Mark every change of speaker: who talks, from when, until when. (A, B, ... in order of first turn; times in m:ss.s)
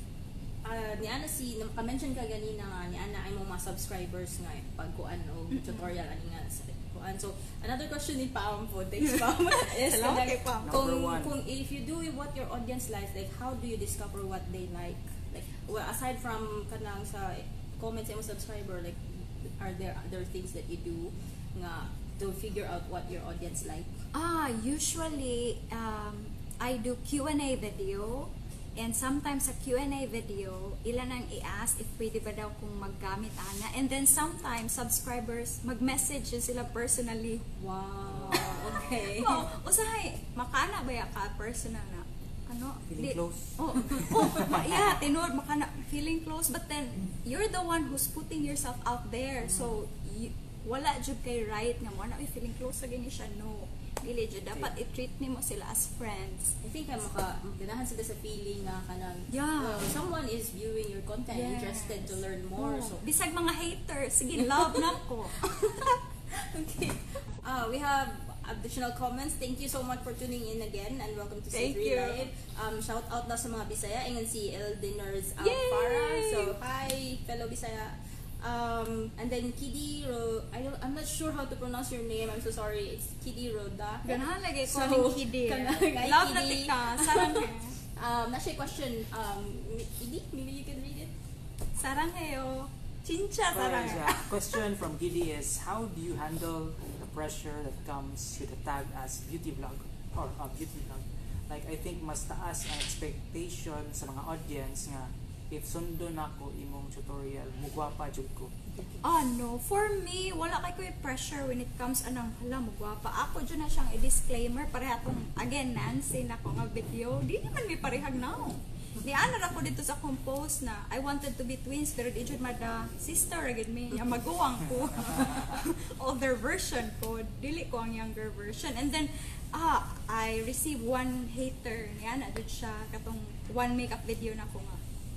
0:00.6-0:24.0 A
0:05.5-0:05.9 B
0:09.5-0:10.8 B
0:10.6-0:11.3 C
0:24.1-0:37.5 B
0:37.6-0:39.4 A
0:38.1-0:39.1 C
0:39.1-0:56.5 B
0:42.9-0:45.0 C
0:49.4-0:49.8 A
0:56.6-1:03.0 A
0:59.3-1:00.0 B
1:01.3-1:06.0 B
1:04.4-1:31.1 A
1:11.5-1:12.2 B
1:15.4-1:16.5 B
1:24.0-1:27.8 B
1:31.8-1:34.5 B
1:33.5-1:48.6 C
1:49.0-2:14.8 B